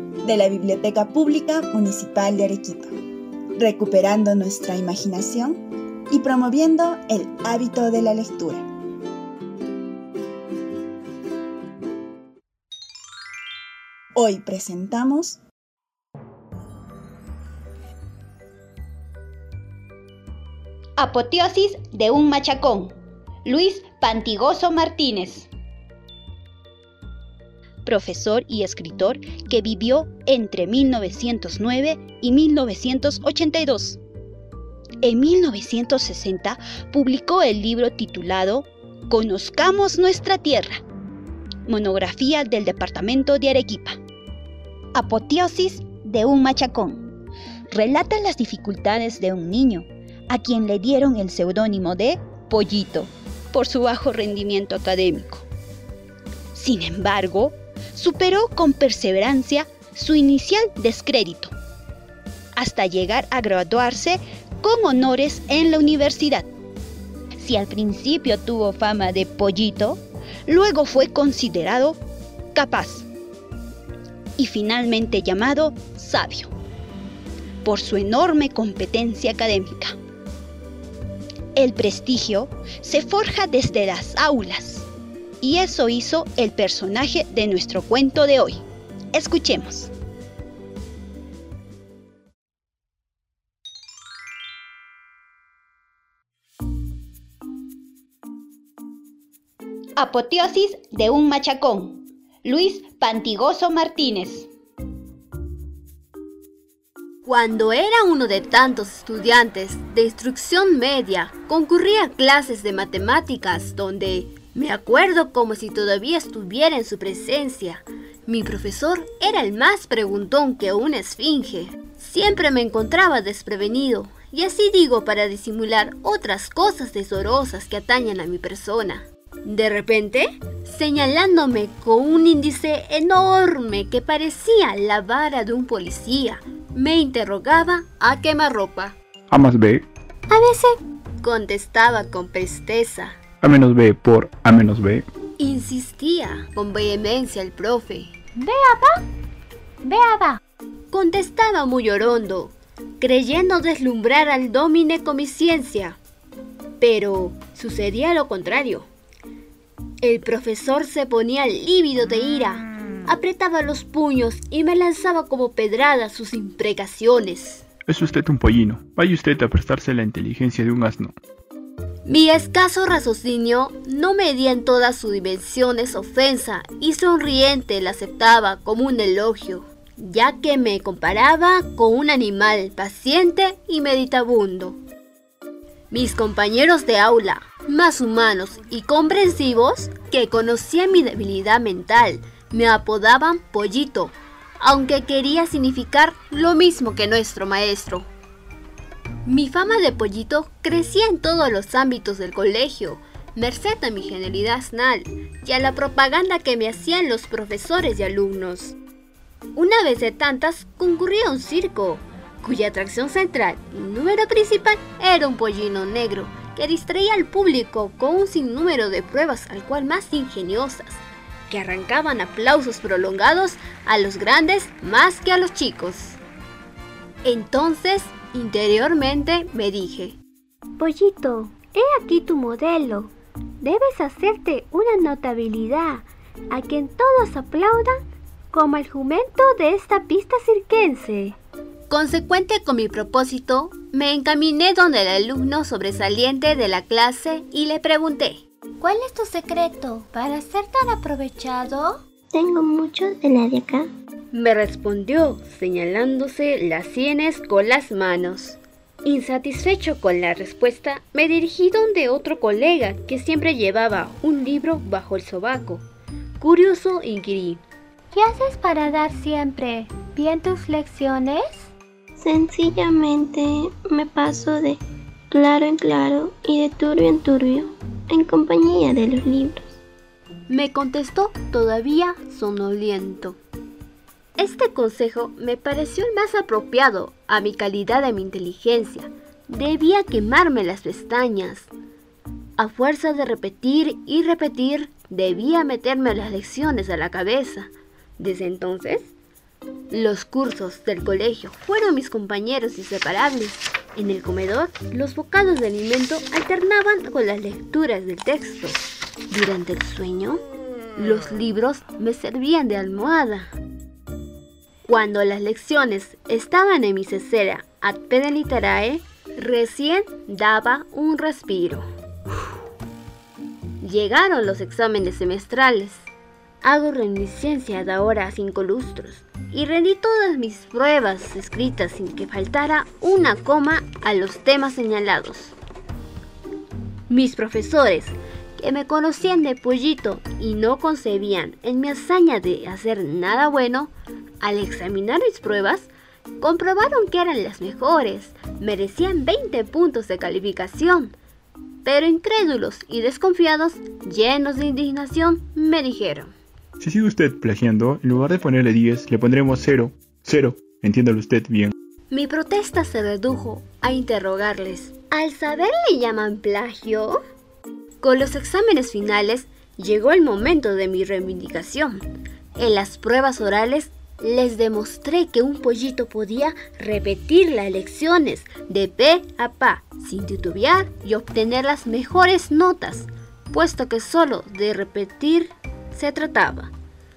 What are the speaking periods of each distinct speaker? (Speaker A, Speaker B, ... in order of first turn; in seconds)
Speaker A: 0.2-2.9, 3.5-8.6, 14.1-15.4
Speaker B: 21.0-25.5, 27.9-34.0, 35.0-40.8, 41.7-44.0, 44.9-47.1, 47.7-55.5, 56.5-61.5, 62.6-66.5, 67.4-72.0, 72.5-73.1, 74.4-76.5, 77.6-79.9, 81.5-84.9, 85.4-89.9, 100.0-104.5
Speaker C: 107.2-138.9, 140.3-140.7, 141.2-143.2, 145.4-148.2, 150.9-156.0, 156.8-158.9, 160.0-167.7, 172.0-184.8, 185.9-198.1, 199.2-208.8, 209.5-226.2, 227.2-230.2, 230.8-238.0, 238.5-241.4, 241.9-252.0, 254.3-265.9, 266.4-267.6, 280.5-283.4, 284.4-291.7, 292.6-299.1, 299.9-310.4, 311.0-313.5, 314.9-321.9, 323.8-326.1, 326.6-335.6, 337.1-351.1, 351.8-356.3, 362.1-367.2, 368.0-386.7
Speaker D: 139.3-139.8, 143.4-145.1, 167.9-171.2, 356.8-361.7
Speaker E: 148.4-148.9, 149.8-150.4, 268.1-271.7
Speaker F: 252.3-253.9, 272.2-279.8